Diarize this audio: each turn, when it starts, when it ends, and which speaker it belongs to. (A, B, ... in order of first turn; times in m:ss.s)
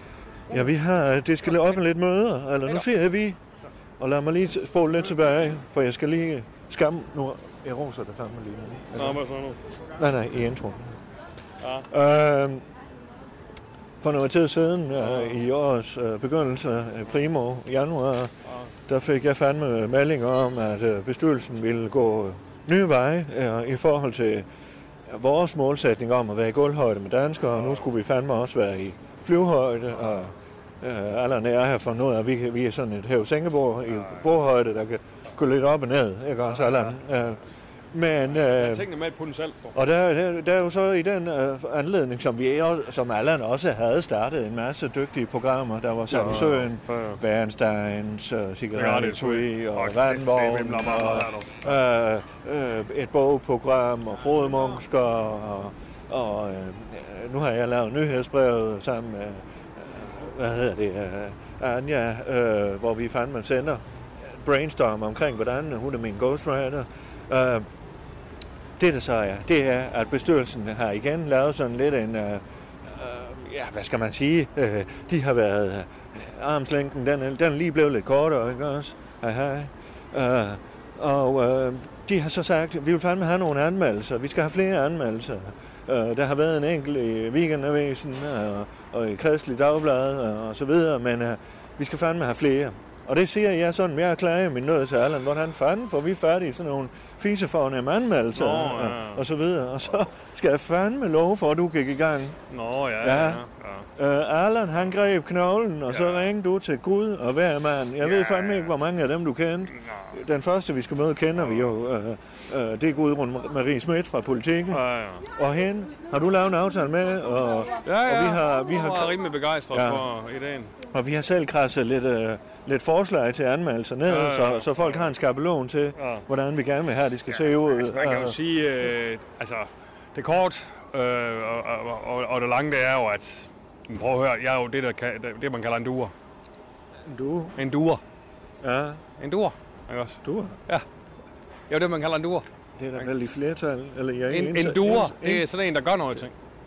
0:00.5-0:03.4 A
0:04.0-0:09.2 A
0:09.0-0:09.6 B
0:10.0-0:11.0 A
0:11.6-0:11.9 B
0:11.9-0:12.6 A
0:14.0-0:18.3 A
0:15.0-0:15.3 B
0:18.4-0:18.7 B
0:18.9-0:24.5 A
0:25.1-0:37.4 A
0:33.9-0:34.2 B
0:36.5-0:37.0 B
0:37.9-0:38.9 A
0:38.3-0:39.8 B
0:39.7-1:07.7 A
0:46.1-0:47.2 B
0:48.7-0:51.7 B
1:08.8-1:42.4 A
1:38.3-1:39.2 B
1:42.5-1:43.9 B
1:43.0-1:43.4 A
1:44.0-2:00.1 A
1:45.9-1:46.3 B
1:48.0-1:48.7 B
1:49.7-1:50.2 B
1:51.4-1:51.7 B
1:54.7-1:55.3 B
1:57.8-2:00.7 B
2:00.9-2:08.4 A
2:04.0-2:05.1 B
2:06.0-2:06.2 B
2:07.3-2:16.1 B
2:17.0-2:17.6 A
2:17.6-2:18.0 B
2:18.6-2:19.0 A
2:19.2-2:20.8 B
2:20.2-2:20.6 A
2:21.7-2:23.1 B
2:22.8-2:25.4 A
2:24.3-2:26.3 B